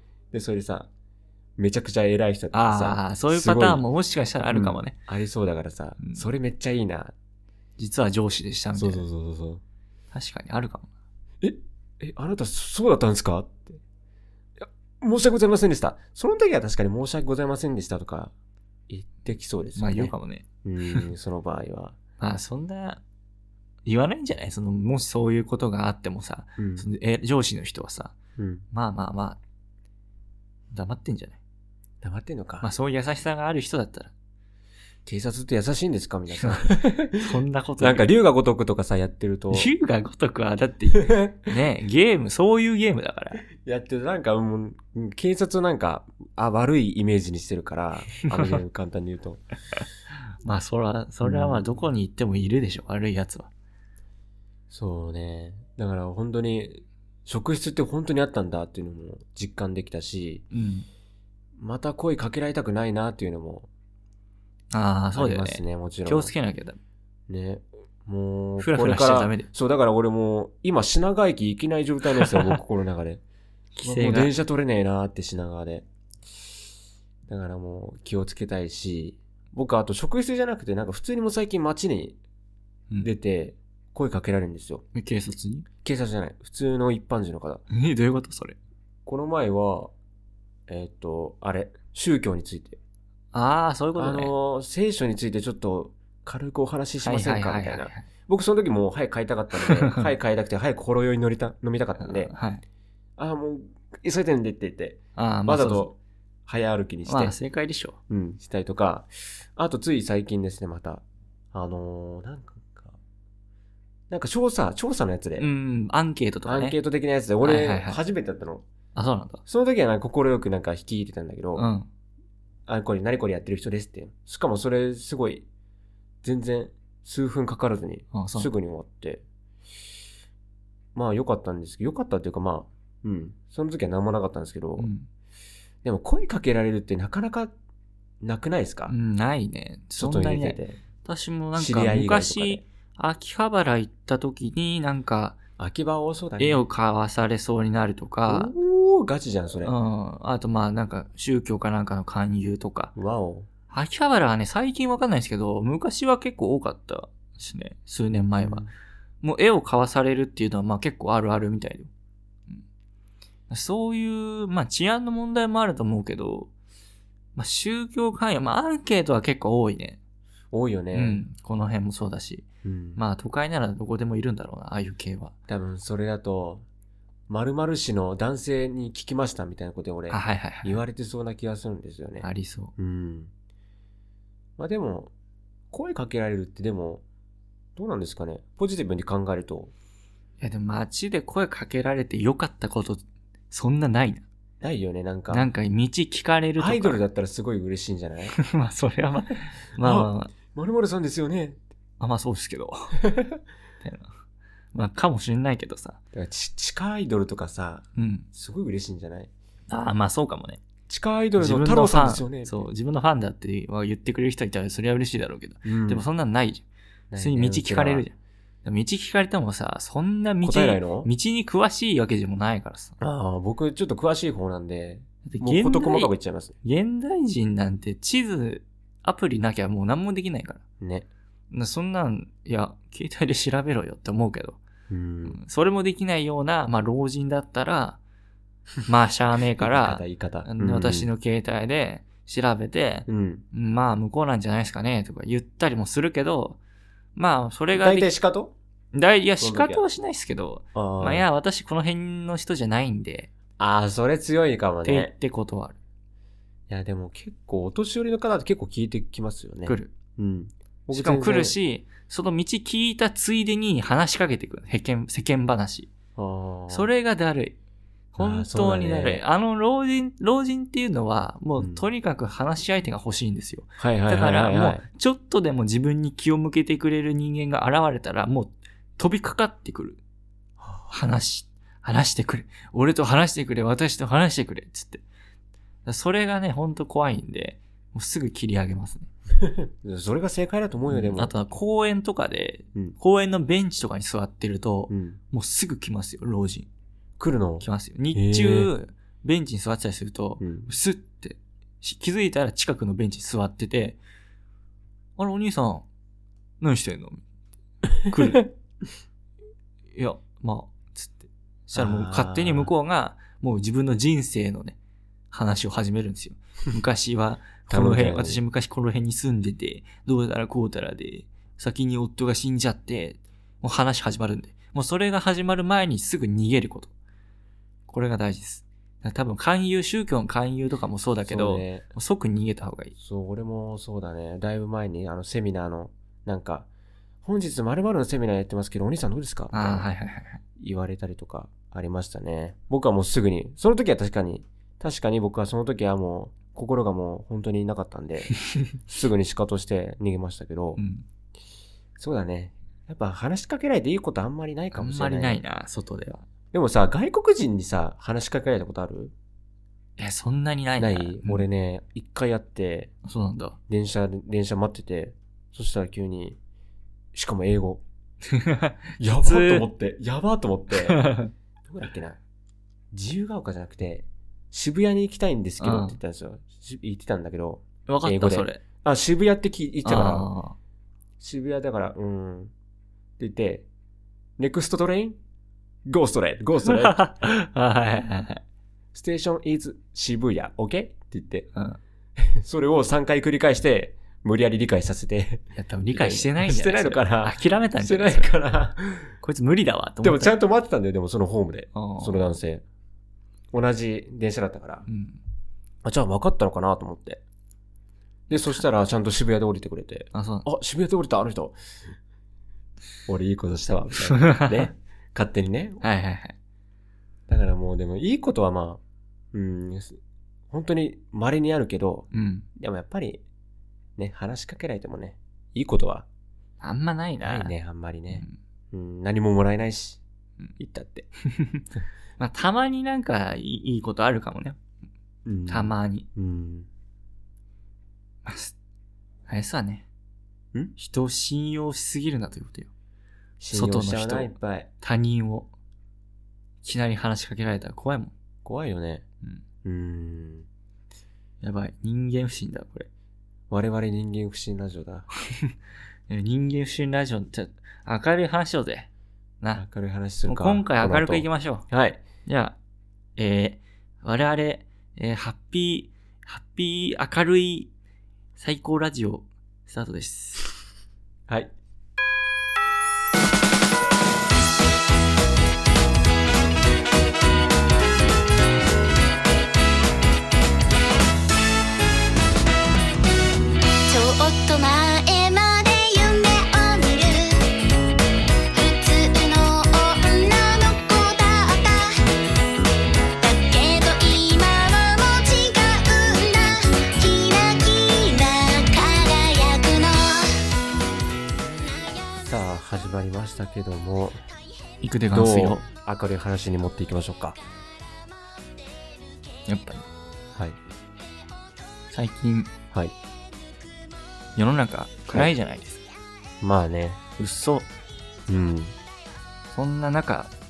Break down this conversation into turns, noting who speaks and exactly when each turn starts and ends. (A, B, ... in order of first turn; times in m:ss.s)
0:00.3-0:00.9 A
0:01.6-0:03.8 A
0:02.5-0:05.0 B
0:04.5-0:07.1 A
0:07.8-0:09.0 B
0:08.7-0:09.6 A
0:10.1-0:10.9 B
0:11.4-0:13.8 A
0:14.6-0:18.3 A
0:18.9-0:22.0 A
0:19.8-0:21.0 B
0:22.2-0:23.0 B
0:23.8-0:28.1 B
0:26.6-0:26.9 A
0:28.4-0:28.6 A
0:28.7-0:29.4 B
0:30.7-0:31.4 B
0:32.0-0:32.7 A
0:32.6-0:34.1 B
0:35.0-0:39.7 A
0:36.4-0:38.1 B
0:39.5-0:43.4 B
0:40.9-0:41.5 A
0:43.5-0:49.4 A
0:50.4-0:53.5 B
0:51.2-0:51.6 A
0:54.7-1:00.4 A
1:00.5-1:00.9 B
1:01.6-1:03.7 A
1:04.7-1:06.8 B
1:05.1-1:06.3 A
1:07.3-1:13.2 A
1:08.6-1:09.5 B
1:12.2-1:12.6 B
1:13.7-1:14.3 B
1:13.8-1:15.8 A
1:17.3-1:22.2 A
1:23.0-1:24.8 A
1:24.9-1:25.7 B
1:25.8-1:27.6 A
1:27.7-1:28.6 B
1:29.0-1:29.9 A
1:30.7-1:32.8 A
1:33.3-1:34.3 B
1:34.0-1:42.3 A
1:37.0-1:38.0 B
1:39.6-1:40.0 B
1:42.0-1:42.6 B
1:43.2-1:47.4 A
1:45.2-1:45.9 B
1:47.1-1:48.0 B
1:48.1-1:53.0 A
1:54.1-1:55.5 A
1:55.4-1:56.8 B
1:56.4-1:58.6 A
1:57.4-1:58.0 B
1:58.9-1:59.4 B
1:59.5-2:01.7 A
2:01.6-2:01.9 B
2:02.7-2:05.4 A
2:06.2-2:09.2 A
2:08.1-2:08.5 B
2:10.9-2:14.9 A
2:14.8-2:15.1 B
2:15.8-2:17.5 A
2:18.2-2:19.0 A
2:18.9-2:25.4 B
2:20.0-2:20.8 A
2:21.5-2:22.6 A
2:25.6-2:26.6 A
2:26.4-2:28.5 B
2:28.3-2:29.7 A
2:29.6-2:32.9 B
2:33.0-2:33.5 A
2:33.7-2:38.7 B
2:38.4-2:38.7 A
2:39.2-2:41.9 B
2:43.5-2:46.5 B
2:47.4-2:50.0 B
2:50.5-2:51.2 A
2:50.9-2:52.4 B
2:52.6-2:53.0 A
2:53.0-2:55.3 B
2:55.5-2:56.6 A
2:57.3-3:03.3 A
3:00.1-3:00.8 B
3:02.2-3:02.7 B
3:04.6-3:05.1 A
3:05.7-3:07.0 A
3:07.8-3:09.7 A
3:10.4-3:14.2 B
3:14.6-3:15.5 A
3:15.3-3:17.0 B
3:16.6-3:18.3 A
3:18.3-3:20.3 B
3:19.8-3:21.6 A
3:22.0-3:23.0 B
3:23.0-3:23.4 A
3:23.8-3:24.1 B
3:24.7-3:26.0 B
3:26.1-3:29.3 A
3:28.0-3:28.3 B
3:29.7-3:30.6 B
3:30.9-3:32.6 A
3:31.4-3:36.6 B
3:35.6-3:36.0 A
3:37.1-3:38.0 A
3:37.2-3:43.0 B
3:40.4-3:41.1 A
3:43.0-3:46.5 A
3:45.2-3:46.1 B
3:46.6-3:50.6 B
3:50.8-3:51.1 A
3:51.5-3:54.6 B
3:54.9-3:55.4 A
3:55.3-3:58.0 B
3:58.9-4:06.6 B
3:59.6-4:01.1 A
4:03.1-4:03.4 A
4:07.1-4:08.1 B
4:07.8-4:08.5 A
4:08.9-4:13.3 B
4:09.4-4:09.8 A
4:10.7-4:11.3 A
4:13.6-4:15.1 A
4:14.8-4:15.8 B
4:16.7-4:21.6 A
4:19.6-4:19.9 B
4:20.9-4:25.9 B
4:26.2-4:26.9 A
4:26.7-4:27.6 B
4:28.1-4:40.0 B
4:28.2-4:29.2 A
4:31.6-4:31.8 A
4:33.8-4:34.8 A
4:40.6-4:40.9 A
4:40.9-4:45.0 B
4:45.8-4:49.1 B
4:49.4-4:51.3 A
4:50.9-4:56.7 B
4:54.9-4:55.2 A
4:57.2-4:58.7 A
4:57.6-5:04.0 B
5:00.4-5:00.7 A
5:05.2-5:05.8 B
5:06.6-5:07.2 B
5:08.1-5:08.4 B
5:09.9-5:14.8 B
5:11.7-5:12.7 A
5:15.3-5:26.9 B
5:17.7-5:18.4 A
5:27.9-5:32.9 B
5:31.2-5:31.8 A
5:33.0-5:36.7 A
5:37.2-5:39.9 A
5:39.5-5:40.4 B
5:40.6-5:50.8 A
5:50.8-5:51.0 B
5:52.0-5:55.4 A
5:54.7-5:56.2 B
5:56.5-5:59.1 A
6:00.0-6:01.4 B
6:00.8-6:02.9 A
6:03.0-6:03.6 B
6:03.7-6:06.4 A
6:07.1-6:07.8 A
6:08.3-6:09.7 B
6:09.0-6:12.2 A
6:10.9-6:11.3 B
6:12.9-6:20.3 A
6:15.6-6:16.0 B
6:17.9-6:18.6 B
6:19.8-6:20.6 B
6:21.2-6:22.5 A
6:23.2-6:23.6 A
6:24.4-6:25.2 A
6:25.8-6:27.0 A
6:26.6-6:28.4 B
6:28.9-6:31.5 A
6:32.2-6:39.1 A
6:35.6-6:38.3 B
6:39.2-6:40.3 B
6:40.0-6:42.6 A
6:41.7-6:42.3 B
6:43.5-6:44.9 A
6:44.9-6:45.2 B
6:45.8-6:47.2 A
6:48.3-6:48.6 B
6:48.3-6:51.6 A
6:50.1-6:50.4 B
6:53.1-6:55.8 A
6:54.1-6:54.7 B
6:55.8-6:56.4 B
6:57.3-6:58.8 A
6:59.3-7:00.0 A
7:00.5-7:03.2 A
7:02.1-7:02.4 B
7:04.0-7:06.0 A
7:06.6-7:07.5 B
7:07.2-7:10.0 A
7:10.6-7:11.1 A
7:11.3-7:11.6 B
7:12.2-7:14.6 B
7:15.2-7:16.7 A
7:15.5-7:16.1 B
7:18.2-7:18.5 B
7:19.3-7:19.8 B
7:20.8-7:22.7 B
7:23.4-7:24.7 A
7:23.5-7:25.5 B
7:26.6-7:28.1 B
7:28.4-7:29.0 A
7:29.6-7:30.5 A
7:31.4-7:32.9 B
7:33.5-7:35.1 A
7:36.1-7:38.9 B
7:39.5-7:42.0 A
7:40.2-7:41.6 B
7:42.2-7:42.6 B
7:43.2-7:47.7 B
7:48.4-7:50.5 B
8:03.9-8:07.5 C
8:08.5-8:12.0 C
8:13.2-8:20.4 C
8:22.2-8:24.2 A
8:24.8-8:25.6 B
8:25.1-8:27.4 A
8:29.5-8:29.8 B
8:31.9-8:32.5 B
8:34.4-8:35.8 B
8:36.4-8:37.0 A
8:37.2-8:37.7 B
8:38.3-8:38.7 A
8:39.5-8:40.3 B